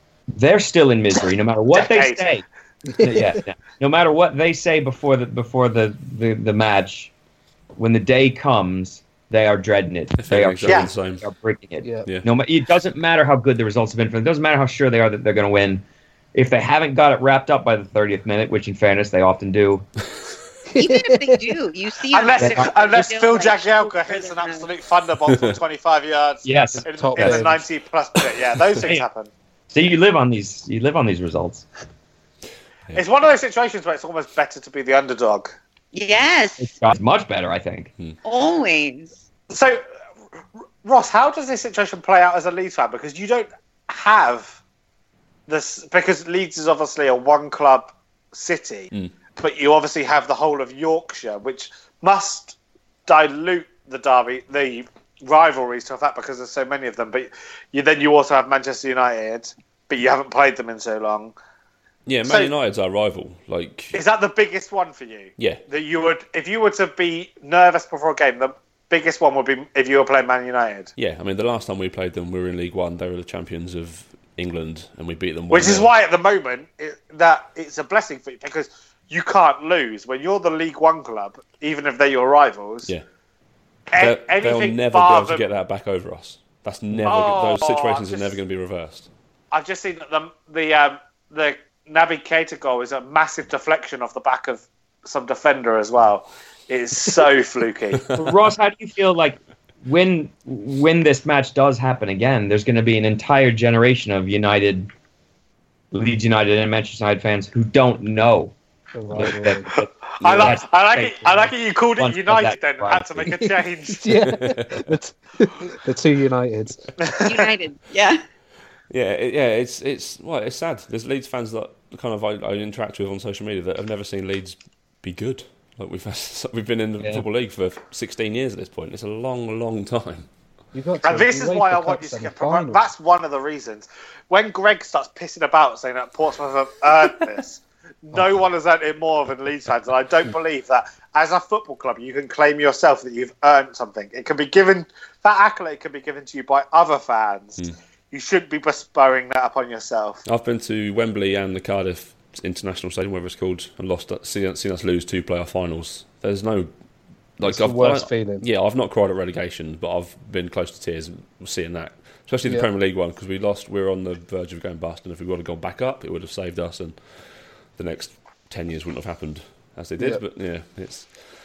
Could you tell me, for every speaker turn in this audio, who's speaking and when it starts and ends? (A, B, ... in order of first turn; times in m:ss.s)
0:00.3-0:02.4 A
0:01.7-0:02.3 B
0:03.0-0:07.1 A
0:07.8-0:15.8 A
0:10.2-0:11.2 C
0:16.3-0:19.8 A
0:20.7-0:21.4 D
0:20.8-0:24.7 E
0:22.1-0:29.3 B
0:22.4-0:22.7 A
0:26.4-0:27.4 A
0:26.9-0:27.6 D
0:29.7-0:31.6 A
0:33.0-0:35.5 B
0:35.9-0:36.7 E
0:36.6-0:37.9 A
0:38.2-0:39.1 E
0:39.5-0:39.8 B
0:40.8-0:44.6 B
0:45.5-0:52.6 B
0:53.1-1:01.4 B
1:02.1-1:04.0 C
1:02.2-1:02.5 B
1:03.9-1:10.9 B
1:11.0-1:15.9 C
1:15.5-1:22.9 B
1:23.9-1:25.4 B
1:24.0-1:29.1 C
1:27.0-1:28.4 B
1:29.5-1:38.1 B
1:38.1-1:44.9 A
1:45.9-1:48.5 A
1:48.9-1:49.7 D
1:49.1-1:53.4 A
1:49.7-1:54.1 B
1:50.2-1:50.6 C
1:54.0-1:56.8 D
1:54.2-1:54.9 C
1:57.0-1:57.5 B
1:57.2-1:58.2 E
1:58.9-2:10.3 C
2:10.7-2:12.8 D
2:11.0-2:30.2 B
2:30.3-2:36.7 C
2:37.4-2:47.0 C
2:37.4-2:38.5 D
2:47.8-2:51.1 C